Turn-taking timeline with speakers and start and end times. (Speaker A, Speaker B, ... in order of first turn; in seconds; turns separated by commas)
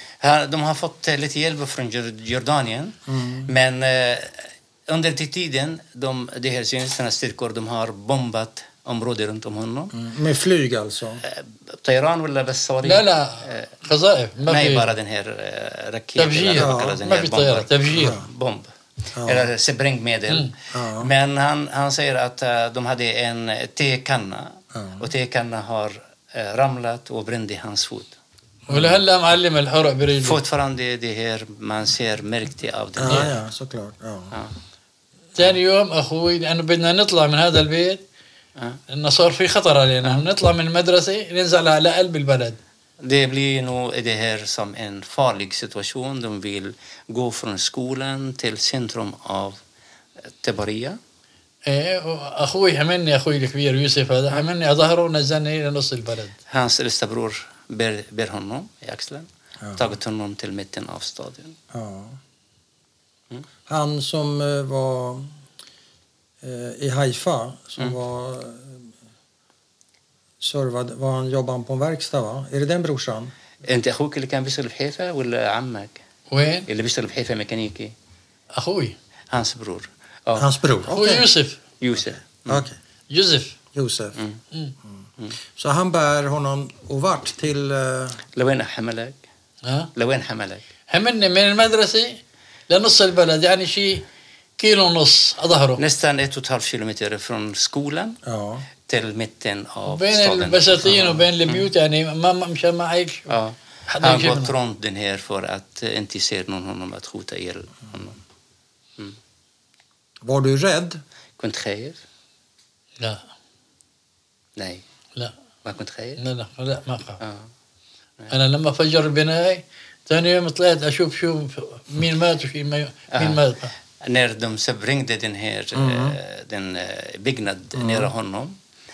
Speaker A: 0.2-9.9, Speaker B: 3.1-3.5, Speaker B: 9.9-11.2, Speaker A: 11.2-13.7, Speaker C: 12.8-14.9, Speaker A: 14.4-28.1, Speaker C: 16.1-18.2, Speaker B: 16.6-17.0, Speaker B: 17.9-18.2, Speaker B: 19.1-19.5, Speaker B: 20.7-21.1, Speaker B: 24.7-25.1, Speaker B: 28.7-29.0, Speaker C: 28.7-30.4, Speaker A: 30.2-33.4, Speaker B: 33.0-34.4, Speaker C: 35.4-38.0, Speaker C: 38.9-42.6, Speaker A: 43.0-49.6, Speaker A: 50.3-51.0, Speaker C: 51.6-56.3, Speaker A: 56.5-61.6, Speaker B: 61.7-62.2, Speaker B: 63.7-65.3, Speaker B: 66.4-68.9, Speaker B: 70.4-73.3, Speaker A: 73.6-76.0, Speaker C: 76.3-76.7, Speaker A: 76.7-77.9, Speaker C: 78.5-79.0, Speaker A: 79.3-80.5, Speaker B: 80.3-81.3, Speaker C: 80.9-81.6, Speaker A: 81.8-82.7, Speaker B: 82.5-82.8, Speaker C: 83.1-83.6, Speaker B: 83.7-84.2, Speaker B: 84.8-88.2, Speaker A: 88.3-89.2, Speaker C: 89.6-89.9, Speaker A: 89.9-90.7, Speaker C: 90.9-94.0, Speaker C: 94.6-95.8, Speaker A: 95.8-98.2, Speaker B: 98.2-98.7, Speaker A: 98.8-101.7, Speaker C: 99.9-103.3, Speaker B: 100.8-101.2, Speaker A: 103.3-108.2, Speaker C: 103.9-104.5, Speaker B: 110.2-111.0, Speaker A: 111.4-112.0, Speaker A: 114.6-114.8, Speaker A: 115.6-116.2, Speaker C: 116.2-117.2, Speaker A: 117.2-117.5, Speaker C: 118.3-123.7, Speaker A: 123.1-123.4, Speaker A: 124.0-128.6, Speaker B: 125.7-126.2, Speaker B: 127.7-128.1